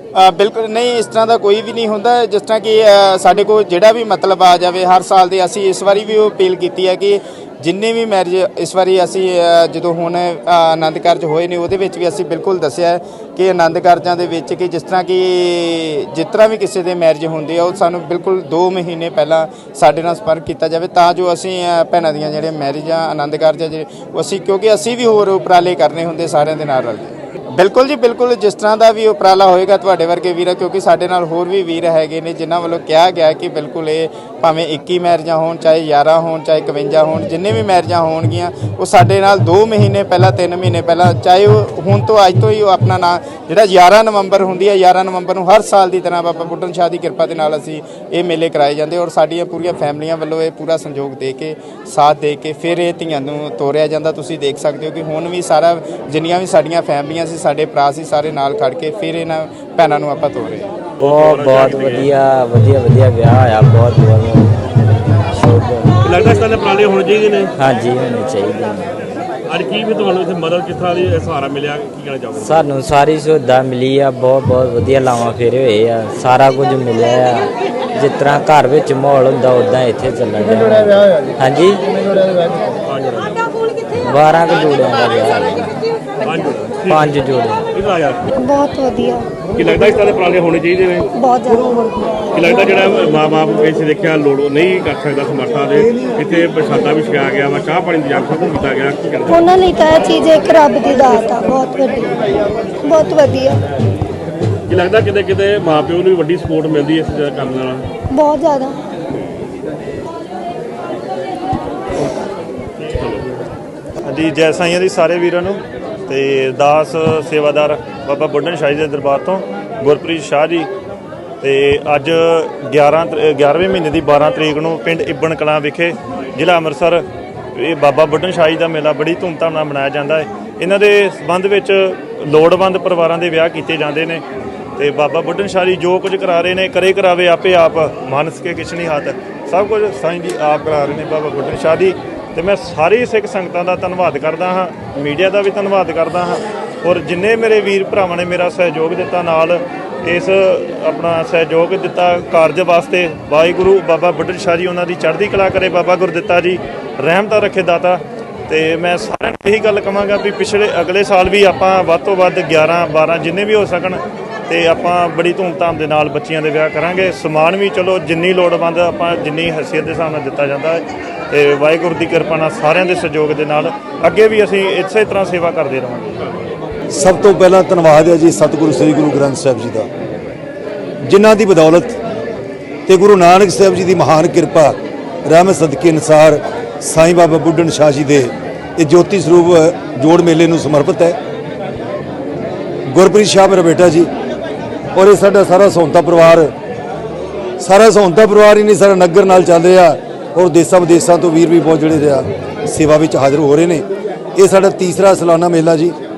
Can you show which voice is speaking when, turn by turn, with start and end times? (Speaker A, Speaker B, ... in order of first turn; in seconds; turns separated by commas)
Speaker A: 0.1-60.7, Speaker B: 61.0-62.0, Speaker C: 61.0-65.9, Speaker B: 66.0-67.5, Speaker C: 67.6-69.0, Speaker B: 69.5-72.6, Speaker C: 72.4-82.0, Speaker B: 82.8-83.3, Speaker C: 84.0-85.8, Speaker B: 86.2-87.0, Speaker C: 86.9-87.7, Speaker B: 87.7-88.3, Speaker D: 88.3-89.3, Speaker B: 89.5-91.1, Speaker D: 91.1-91.9, Speaker B: 92.3-99.5, Speaker D: 99.3-102.2, Speaker D: 102.8-103.6, Speaker B: 104.7-107.9, Speaker D: 108.1-108.8, Speaker B: 112.8-113.4, Speaker E: 114.0-120.7, Speaker E: 121.4-134.2, Speaker E: 134.8-176.3, Speaker F: 176.9-179.9, Speaker F: 181.0-182.0, Speaker F: 182.9-191.2, Speaker F: 192.9-194.1, Speaker F: 194.9-196.5, Speaker F: 197.6-205.9